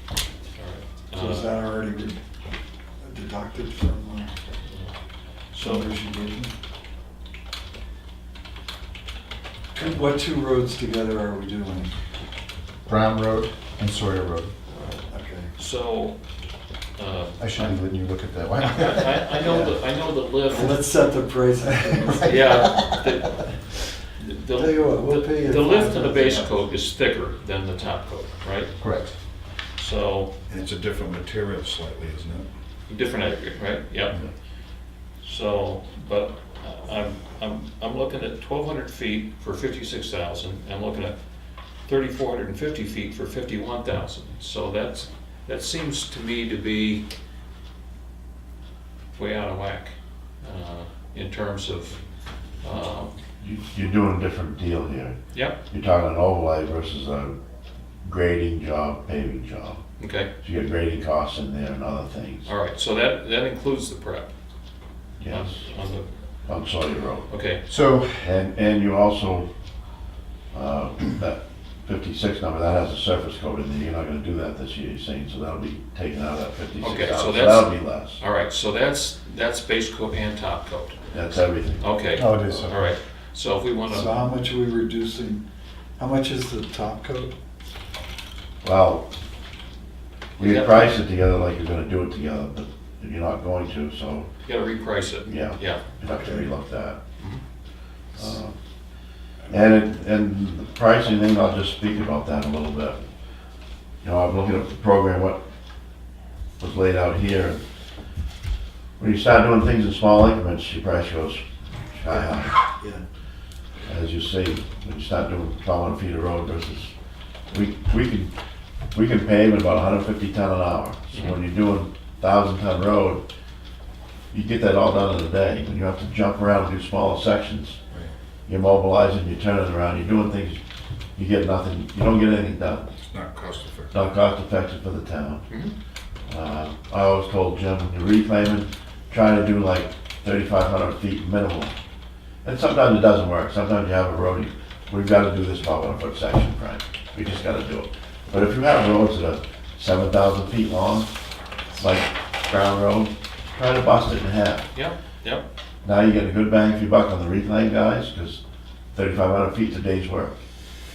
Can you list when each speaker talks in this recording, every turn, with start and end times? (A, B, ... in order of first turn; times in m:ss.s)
0:00.6-0:01.6 A
0:01.1-0:02.2 B
0:03.0-0:04.3 B
0:05.5-0:05.9 A
0:05.6-0:06.5 B
0:09.7-0:11.9 B
0:12.8-0:14.5 C
0:15.1-0:15.5 B
0:15.6-0:16.2 A
0:17.0-0:17.7 A
0:17.4-0:19.4 C
0:18.6-0:20.9 A
0:19.4-0:19.8 B
0:20.5-0:22.4 B
0:22.0-0:22.6 C
0:22.2-0:28.8 A
0:24.5-0:26.6 B
0:28.8-0:29.1 C
0:29.8-0:30.3 A
0:30.5-0:32.5 D
0:32.9-0:34.2 A
0:35.2-0:41.2 A
0:41.9-0:47.0 A
0:49.1-0:52.0 A
0:52.6-0:53.2 A
0:53.4-0:57.3 E
0:58.0-0:59.8 E
1:00.0-1:00.3 A
1:00.4-1:02.5 E
1:02.4-1:04.3 A
1:05.2-1:05.6 E
1:05.3-1:06.1 A
1:06.4-1:07.3 E
1:07.3-1:07.6 A
1:07.7-1:08.3 C
1:08.1-1:09.5 E
1:10.5-1:18.2 E
1:16.8-1:21.0 A
1:21.1-1:21.8 E
1:21.8-1:24.2 A
1:22.2-1:22.9 C
1:23.9-1:25.4 B
1:26.0-1:27.3 B
1:28.6-1:29.1 E
1:30.4-1:30.9 A
1:30.4-1:34.3 E
1:34.4-1:35.8 A
1:35.3-1:37.0 E
1:36.1-1:36.5 B
1:38.2-1:38.6 E
1:39.5-1:43.0 E
1:44.0-1:45.4 E
1:46.6-1:47.6 E
1:49.0-1:52.6 E
1:52.1-1:53.0 B
1:53.9-1:56.9 E
1:57.5-1:58.3 E
1:58.9-2:03.2 E
2:04.3-2:07.8 E
2:08.5-2:10.6 E
2:11.2-2:12.9 E
2:13.1-2:13.9 D
2:13.9-2:15.5 E
2:15.5-2:15.7 A
2:16.3-2:21.7 E
2:22.4-2:31.1 E
2:31.8-2:34.7 E
2:34.7-2:35.4 A
2:35.8-2:38.4 E
2:38.9-2:40.3 E